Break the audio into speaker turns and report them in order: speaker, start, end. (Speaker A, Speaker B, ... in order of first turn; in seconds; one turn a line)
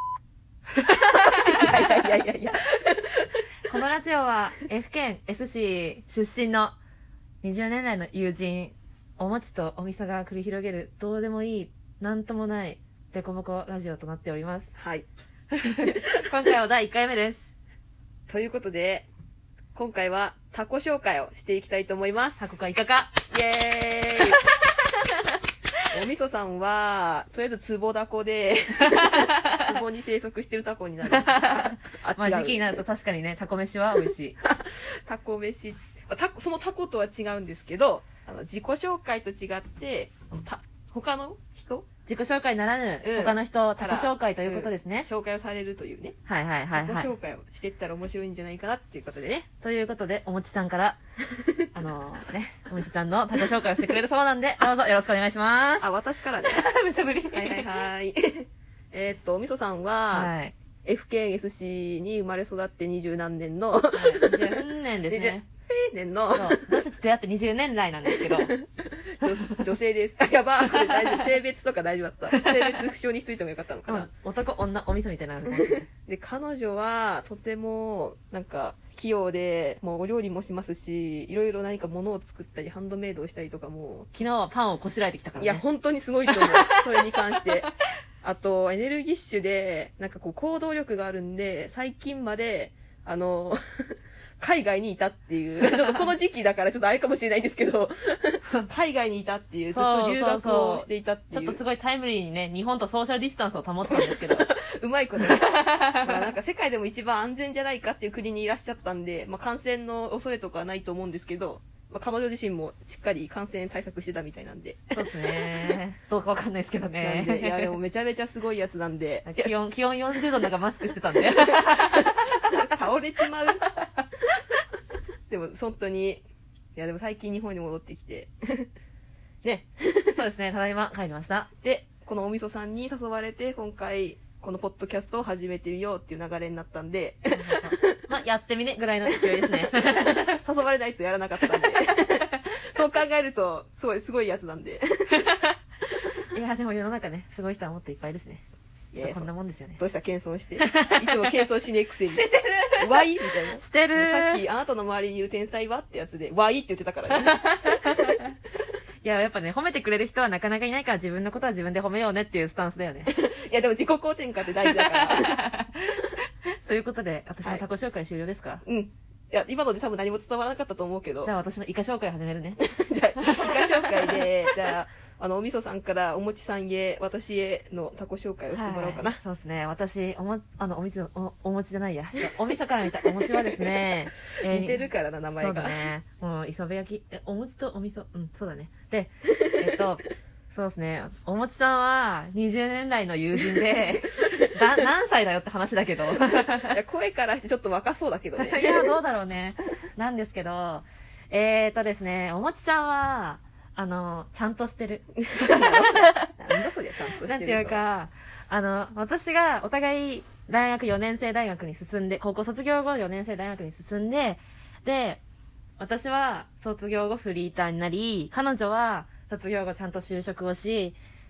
Speaker A: 0.8-3.4
Speaker B: 3.7-6.8
Speaker B: 7.4-14.7
Speaker A: 14.8-15.1
Speaker B: 15.5-17.5
Speaker A: 15.8-16.2
Speaker A: 18.3-19.1
Speaker A: 19.7-22.4
Speaker B: 22.4-23.1
Speaker A: 23.3-24.4
Speaker A: 25.9-32.8
Speaker B: 28.9-29.6
Speaker B: 31.1-34.4
Speaker A: 34.4-41.9
Speaker B: 42.0-45.1
Speaker A: 43.0-46.2
Speaker B: 46.3-47.1
Speaker A: 46.8-49.5
Speaker B: 49.6-51.0
Speaker B: 51.7-55.9
Speaker A: 55.8-56.6
Speaker B: 56.5-57.7
Speaker A: 57.3-60.3
Speaker B: 60.1-60.5
Speaker A: 60.8-66.8
Speaker B: 63.9-65.5
Speaker B: 66.3-68.5
Speaker A: 68.1-74.1
Speaker B: 72.3-72.8
Speaker B: 73.9-75.9
Speaker A: 76.1-84.1
Speaker B: 84.1-85.6
Speaker A: 85.4-87.7
Speaker B: 86.3-87.7
Speaker A: 88.2-101.6
Speaker B: 99.7-104.5
Speaker A: 103.9-115.8
Speaker B: 105.2-106.3
Speaker B: 115.0-117.8
Speaker A: 117.0-119.4
Speaker B: 119.2-122.5
Speaker A: 121.2-123.6
Speaker A: 125.3-126.2
Speaker A: 126.8-128.7
Speaker A: 129.4-130.2
Speaker B: 130.1-131.5
Speaker A: 131.6-138.0
Speaker B: 137.3-140.4
Speaker A: 139.3-145.2
Speaker B: 146.3-148.4
Speaker A: 148.9-152.3
Speaker B: 148.9-149.8
Speaker B: 150.6-151.4
Speaker B: 152.1-154.4
Speaker A: 152.8-158.2
Speaker B: 157.2-158.2
Speaker B: 159.0-163.1
Speaker A: 163.1-165.4
Speaker B: 164.7-168.6
Speaker A: 168.7-171.3
Speaker B: 171.2-172.6
Speaker A: 172.6-179.2
Speaker B: 173.2-174.2
Speaker B: 178.5-184.9
Speaker A: 183.3-185.8
Speaker B: 185.4-196.8
Speaker A: 196.3-199.0
Speaker B: 198.4-206.3
Speaker A: 205.3-207.8
Speaker B: 207.2-215.2
Speaker B: 215.8-221.0